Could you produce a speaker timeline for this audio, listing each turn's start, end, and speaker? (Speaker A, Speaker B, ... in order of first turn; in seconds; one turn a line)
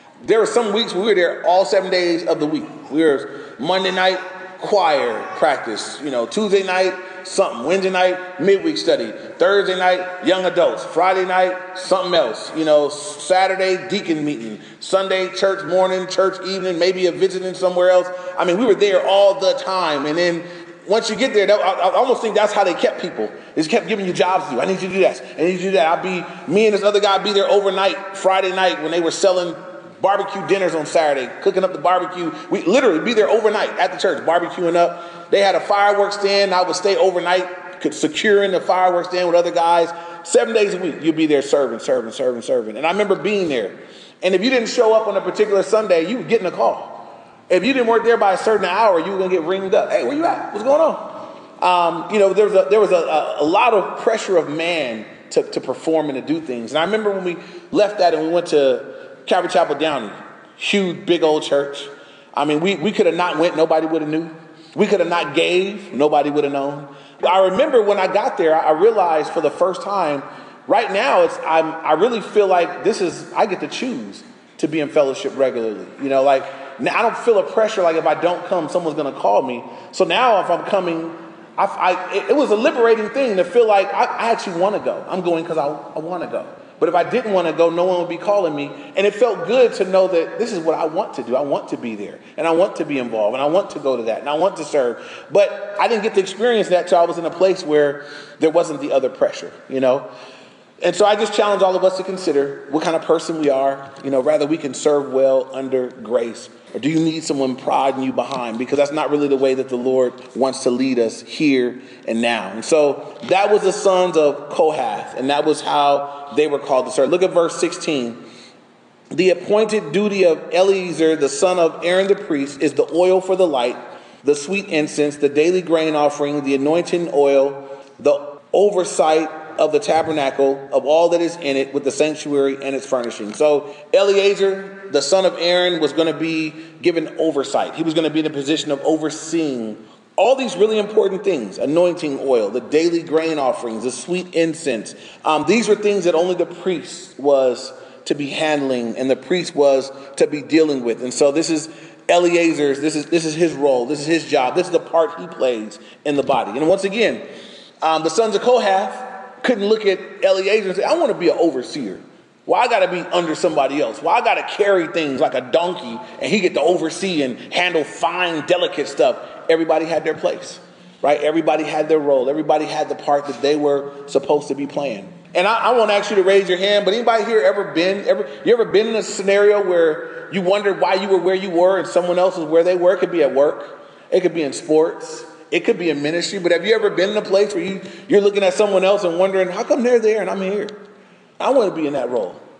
Speaker A: 0.2-100.1
Speaker A: 100.8-118.2
Speaker A: 119.1-157.2
Speaker A: 157.8-190.7
Speaker A: 191.4-192.4